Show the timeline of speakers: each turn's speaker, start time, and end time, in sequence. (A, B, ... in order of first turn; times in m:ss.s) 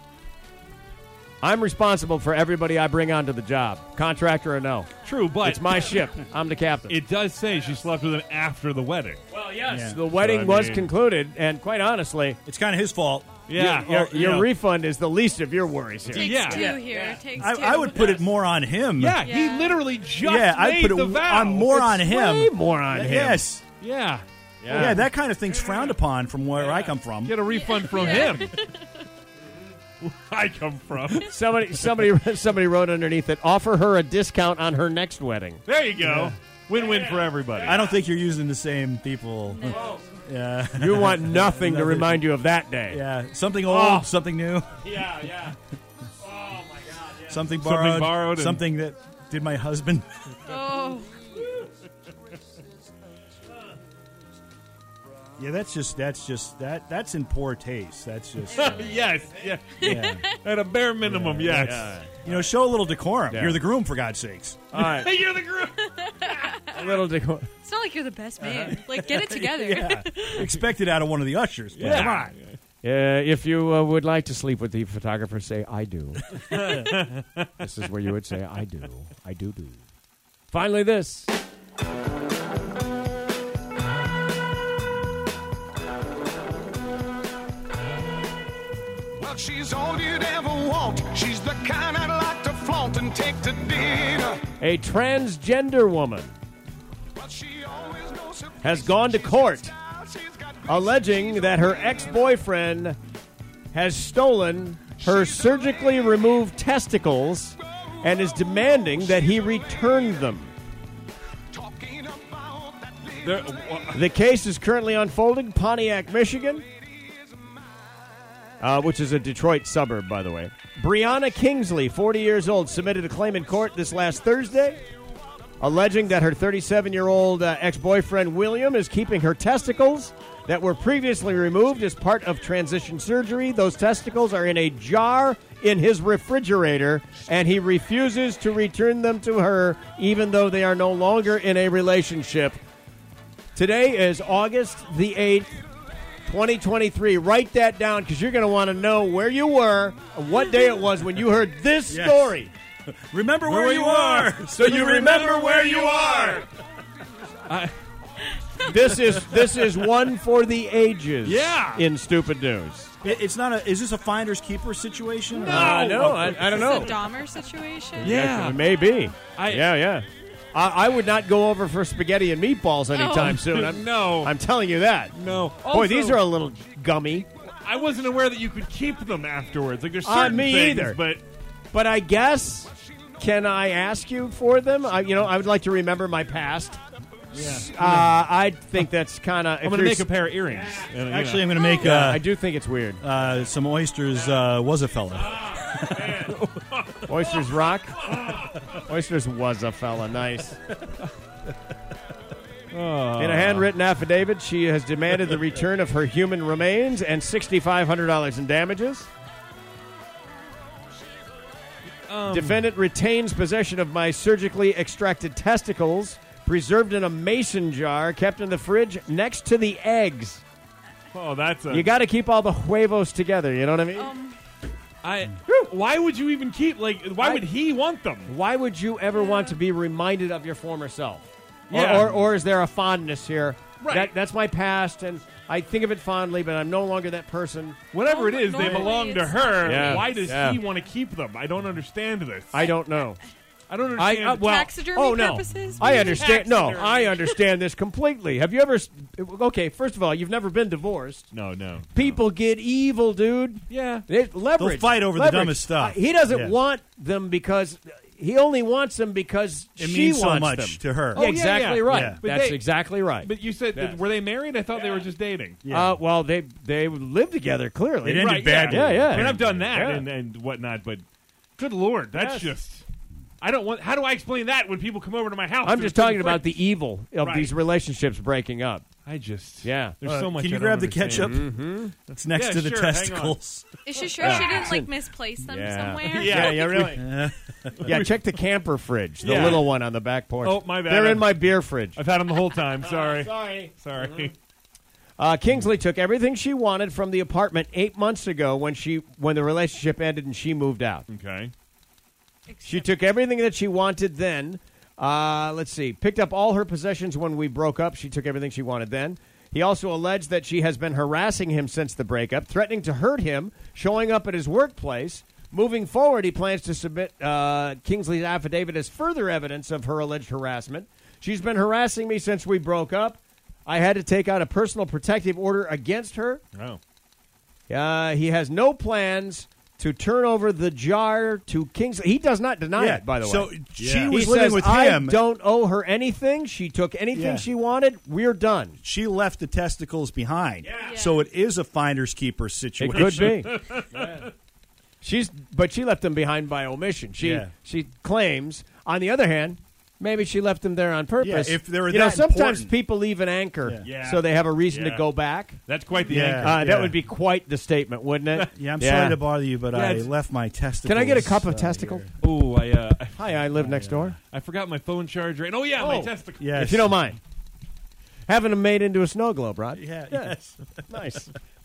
0:01.4-0:04.9 A
0:05.0-0:06.0 B
0:05.4-0:07.0 A
0:06.9-0:09.2 B
0:09.3-0:12.4 A
0:09.7-0:10.0 C
0:10.0-0:10.9 B
0:12.4-0:13.4 C
0:13.5-0:14.2 B
0:13.6-0:16.3 A
0:14.0-0:14.5 C
0:16.1-0:18.3 D
0:16.2-0:17.2 B
0:16.5-0:19.2 C
0:19.0-0:21.7 B
0:19.2-0:19.9 D
0:20.2-0:23.6 C
0:21.7-0:23.5 A
0:23.8-0:26.0 B
0:24.6-0:25.0 A
0:24.7-0:27.4 C
0:26.6-0:28.6 B
0:27.5-0:29.0 D
0:30.0-0:31.3 B
0:31.2-0:35.6 A
0:35.7-0:37.8 B
0:36.0-0:36.4 C
0:36.7-0:38.0 A
0:37.6-0:42.3 C
0:39.5-0:40.0 D
0:39.7-0:40.0 A
0:40.7-0:43.0 A
0:42.9-0:44.9 C
0:43.6-0:44.1 A
0:44.8-0:45.6 A
0:46.2-0:47.5 A
0:47.3-0:50.4 C
0:47.6-0:48.6 B
0:50.5-0:51.2 D
0:55.4-0:58.9 C
0:58.5-1:02.0 B
0:59.8-1:00.2 C
0:59.8-1:00.4 D
1:01.1-1:04.7 C
1:01.5-1:02.1 A
1:03.3-1:03.6 A
1:04.7-1:05.1 A
1:04.8-1:06.4 B
1:05.9-1:06.9 D
1:06.7-1:07.5 A
1:07.6-1:10.5 D
1:08.6-1:12.3 C
1:11.8-1:12.6 B
1:11.8-1:12.2 A
1:12.8-1:16.7 A
1:16.5-1:17.5 B
1:17.6-1:19.8 A
1:20.5-1:21.3 A
1:29.2-1:34.4 E
1:34.6-1:36.3 A
1:37.2-1:39.0 E
1:38.6-1:39.7 A
1:39.9-1:40.5 E
1:40.7-1:43.0 A
1:43.7-1:50.5 A
1:51.5-1:53.3 E
1:53.2-1:54.0 B
1:53.9-1:56.6 A
1:58.6-2:04.8 A
2:05.6-2:22.6 A
2:23.6-2:25.6 A
2:26.3-2:32.5 A
2:31.9-2:32.5 C
2:33.1-2:36.4 C
2:33.5-2:36.2 B
2:34.5-2:36.4 A
2:37.5-2:37.7 B
2:38.6-2:43.0 A
2:41.2-2:41.9 B
2:43.0-2:46.4 C
2:45.4-2:47.0 A
2:45.5-2:46.8 B
2:46.4-2:48.2 D
2:48.0-2:55.1 A
2:48.0-2:48.6 B
2:49.4-2:49.7 B
2:52.9-2:53.4 D
2:53.2-2:54.3 B
2:55.1-2:56.2 B
2:55.6-2:57.3 A
2:57.6-3:01.2 B
3:00.0-3:01.0 A
3:01.7-3:06.8 A
3:07.3-3:08.2 C
3:07.4-3:07.7 B
3:07.4-3:10.1 A
3:09.6-3:11.7 B
3:11.0-3:12.2 C
3:11.7-3:13.0 A
3:13.0-3:16.2 C
3:15.3-3:17.4 B
3:17.1-3:20.6 A
3:18.0-3:18.5 B
3:22.7-3:23.7 B
3:23.2-3:29.1 A
3:32.1-3:32.6 B
3:32.3-3:40.4 A
3:41.1-3:41.9 B
3:41.7-3:44.2 A
3:44.0-3:44.4 D
3:45.0-3:48.3 B
3:47.2-3:47.5 A
3:48.3-3:57.8 A
3:49.1-3:49.6 D
3:51.7-3:52.2 B
3:53.8-3:54.1 B
3:57.9-4:02.7 B
3:58.1-4:00.3 D
3:58.6-3:59.0 A
3:59.6-4:00.6 A
4:02.5-4:03.2 A
4:03.7-4:04.6 B
4:04.0-4:11.3 A
4:04.5-4:06.4 D
4:05.8-4:07.4 B
4:11.3-4:12.2 B
4:11.9-4:24.0 A
4:13.7-4:14.0 B
4:14.6-4:16.6 C
4:19.8-4:21.3 C
4:21.2-4:22.6 B
4:21.9-4:22.2 C
4:23.2-4:25.6 B
4:24.8-4:25.1 A
4:25.6-4:26.0 C
4:25.7-4:30.1 A
4:28.0-4:29.7 C
4:28.1-4:31.0 B
4:31.6-4:32.8 B
4:32.1-4:32.5 A
4:33.4-4:36.6 B
4:35.6-4:38.8 A
4:37.2-4:37.5 B
4:39.1-4:41.5 B
4:39.6-4:40.0 A
4:40.0-4:41.5 C
4:41.1-4:42.0 A
4:42.1-4:43.7 C
4:42.2-4:43.4 B
4:43.9-4:46.6 D
4:44.2-4:44.9 B
4:44.2-4:44.9 A
4:45.5-4:47.1 A
4:46.0-4:47.1 B
4:46.5-4:48.1 C
4:47.8-4:48.1 B
4:47.8-4:52.0 A
4:49.2-4:49.6 B
4:50.4-4:54.3 B
4:52.8-4:54.3 A
4:55.2-5:01.1 A
5:01.1-5:01.5 B
5:02.5-5:03.0 D
5:02.6-5:26.4 A
5:26.5-5:26.8 B
5:27.7-5:33.5 A
5:32.8-5:35.2 C
5:33.8-5:34.1 B
5:34.1-5:38.8 A
5:37.1-5:37.5 C
5:38.8-5:43.5 C
5:40.8-5:41.2 D
5:42.8-5:43.5 A
5:42.9-5:44.3 B
5:45.0-5:55.6 A
5:47.2-5:47.5 C
5:51.2-5:52.7 C
5:53.6-5:54.0 C
5:53.8-5:55.0 B
5:55.7-5:56.6 B
5:56.1-5:57.0 C
5:56.1-5:59.2 A
5:58.5-6:02.1 C
5:59.7-6:00.1 B
6:00.8-6:02.1 A
6:02.2-6:03.6 B
6:03.2-6:04.2 A
6:03.6-6:04.2 C
6:04.3-6:06.5 B
6:05.8-6:07.2 A
6:06.4-6:07.1 C
6:08.3-6:10.4 A
6:09.8-6:11.2 C
6:10.9-6:11.3 A